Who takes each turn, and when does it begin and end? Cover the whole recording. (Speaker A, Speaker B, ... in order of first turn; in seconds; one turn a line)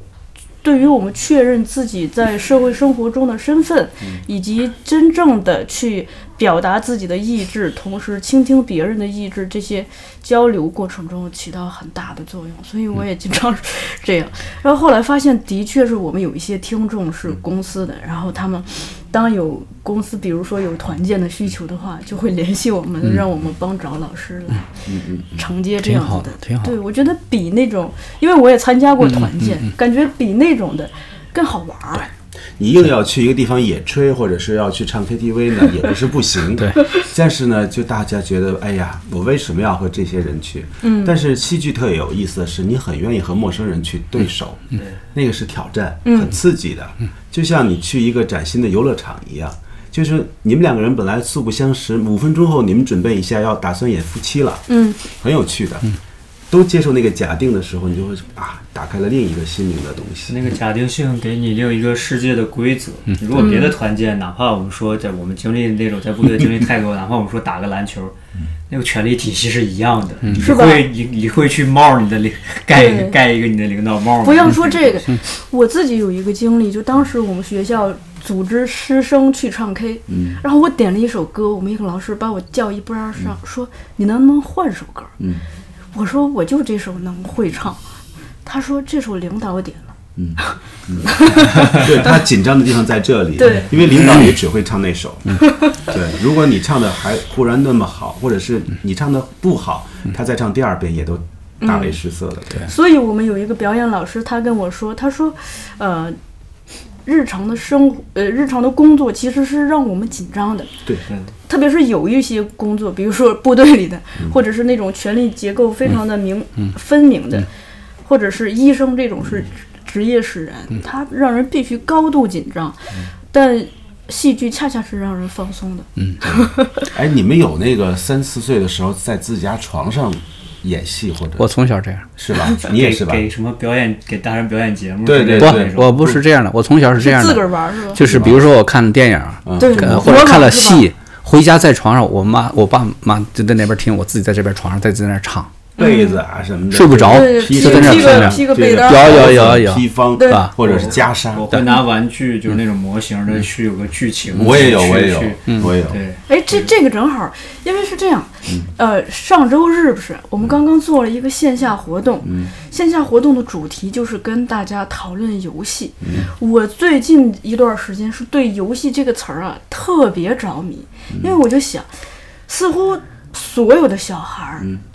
Speaker A: 0.6-24.7
Speaker B: 24.9-25.4
Speaker A: 25.4-32.1
Speaker C: 25.8-26.7
Speaker C: 29.1-29.7
Speaker B: 32.6-55.9
Speaker A: 40.8-41.1
Speaker A: 46.0-46.3
Speaker A: 54.7-55.0
Speaker B: 56.5-60.4
Speaker D: 60.3-68.2
Speaker A: 63.4-63.7
Speaker D: 68.7-75.1
Speaker A: 70.4-70.9
Speaker A: 72.7-73.2
Speaker A: 74.2-85.1
Speaker B: 80.1-80.4
Speaker A: 85.9-87.8
Speaker A: 88.4-92.1
Speaker B: 90.2-102.7
Speaker A: 93.4-93.7
Speaker A: 95.4-95.8
Speaker A: 101.6-102.0
Speaker A: 102.6-106.2
Speaker A: 107.0-110.7
Speaker A: 111.5-117.5
Speaker A: 118.0-126.9
Speaker B: 126.2-131.5
Speaker C: 131.4-132.1
Speaker B: 132.2-133.2
Speaker D: 132.6-136.2
Speaker B: 135.0-136.2
Speaker C: 135.4-145.5
Speaker A: 137.0-138.0
Speaker B: 138.0-138.4
Speaker B: 139.4-140.3
Speaker A: 139.6-140.8
Speaker A: 145.8-146.2
Speaker B: 145.8-151.5
Speaker C: 146.7-150.5
Speaker A: 147.1-149.4
Speaker A: 150.2-150.5
Speaker D: 150.6-156.7
Speaker B: 154.3-156.0
Speaker A: 156.3-171.9
Speaker B: 162.2-162.5
Speaker B: 166.0-166.3
Speaker B: 171.1-171.3
Speaker A: 172.5-174.7